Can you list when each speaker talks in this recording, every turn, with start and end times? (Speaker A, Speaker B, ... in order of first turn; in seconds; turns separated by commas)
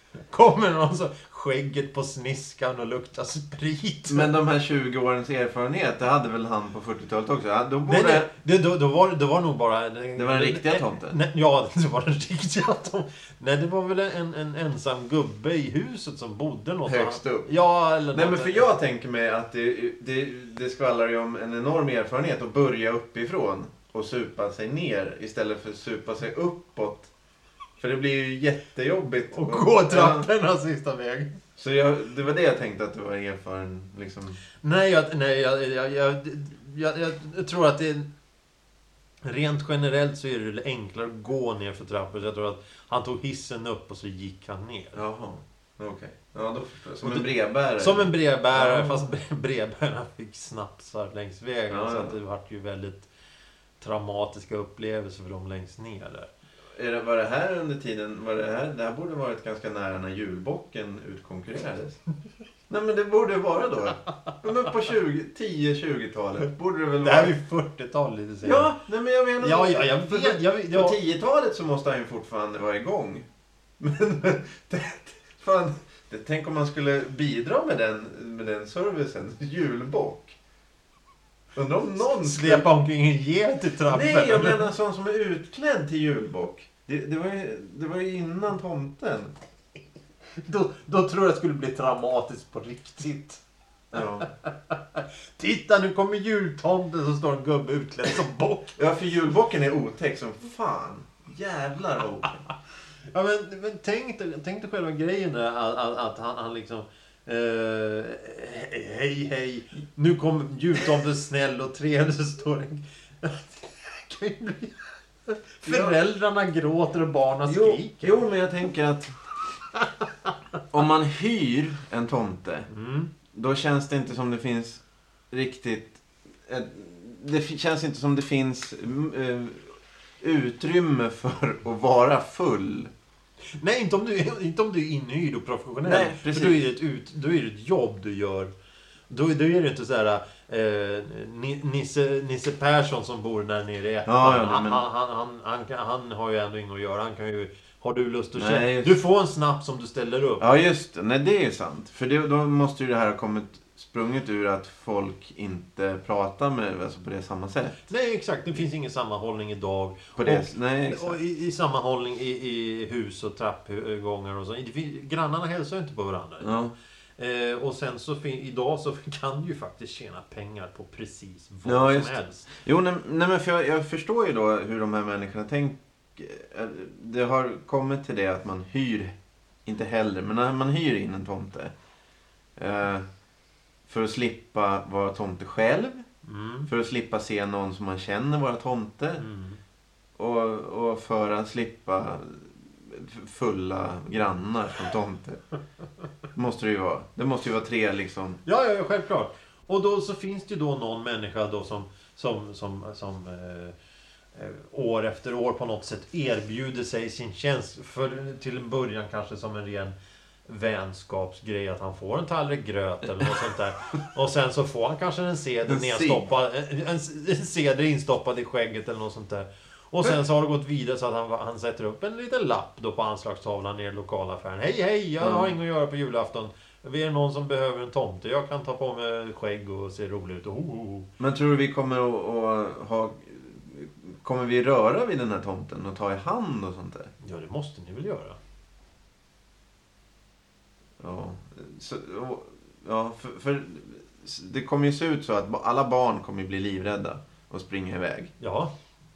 Speaker A: 0.2-4.3, Speaker B: 4.1-8.3, Speaker A: 7.8-18.7, Speaker B: 10.2-11.2, Speaker B: 16.9-17.5, Speaker B: 18.1-27.1, Speaker B: 27.8-30.3, Speaker A: 29.3-31.4, Speaker B: 31.6-34.4, Speaker A: 34.6-38.1, Speaker A: 39.2-45.0, Speaker B: 44.9-49.0, Speaker A: 47.0-53.1, Speaker B: 51.7-52.1, Speaker A: 53.8-56.3, Speaker B: 56.8-62.0, Speaker B: 62.7-67.3, Speaker A: 67.0-68.7, Speaker B: 68.4-73.3, Speaker A: 69.4-71.0, Speaker B: 73.8-80.4, Speaker B: 81.5-82.7, Speaker A: 81.9-84.7, Speaker B: 83.9-89.3, Speaker A: 90.3-93.4, Speaker B: 93.9-94.3, Speaker A: 94.2-98.8, Speaker B: 98.8-102.4, Speaker A: 103.1-118.2, Speaker B: 115.6-116.0, Speaker B: 117.5-119.2, Speaker A: 119.7-120.3, Speaker B: 120.7-122.7, Speaker A: 122.7-123.1, Speaker B: 123.3-132.9, Speaker A: 133.6-138.5, Speaker B: 135.8-136.6, Speaker A: 139.1-150.4, Speaker B: 144.1-144.8, Speaker B: 148.3-149.0, Speaker B: 150.4-157.8, Speaker A: 157.9-166.6, Speaker B: 160.2-161.2, Speaker B: 166.4-166.7, Speaker A: 167.2-172.5, Speaker B: 171.6-181.7, Speaker B: 182.6-183.1, Speaker B: 183.9-186.1, Speaker A: 186.2-186.7, Speaker B: 186.7-189.2, Speaker A: 189.2-189.6, Speaker B: 190.2-195.4, Speaker B: 196.3-198.4, Speaker A: 198.4-203.8, Speaker A: 204.3-231.1, Speaker B: 215.7-216.2, Speaker B: 225.2-225.5, Speaker B: 231.2-237.1, Speaker A: 237.2-238.4, Speaker B: 241.0-248.3, Speaker A: 248.4-248.7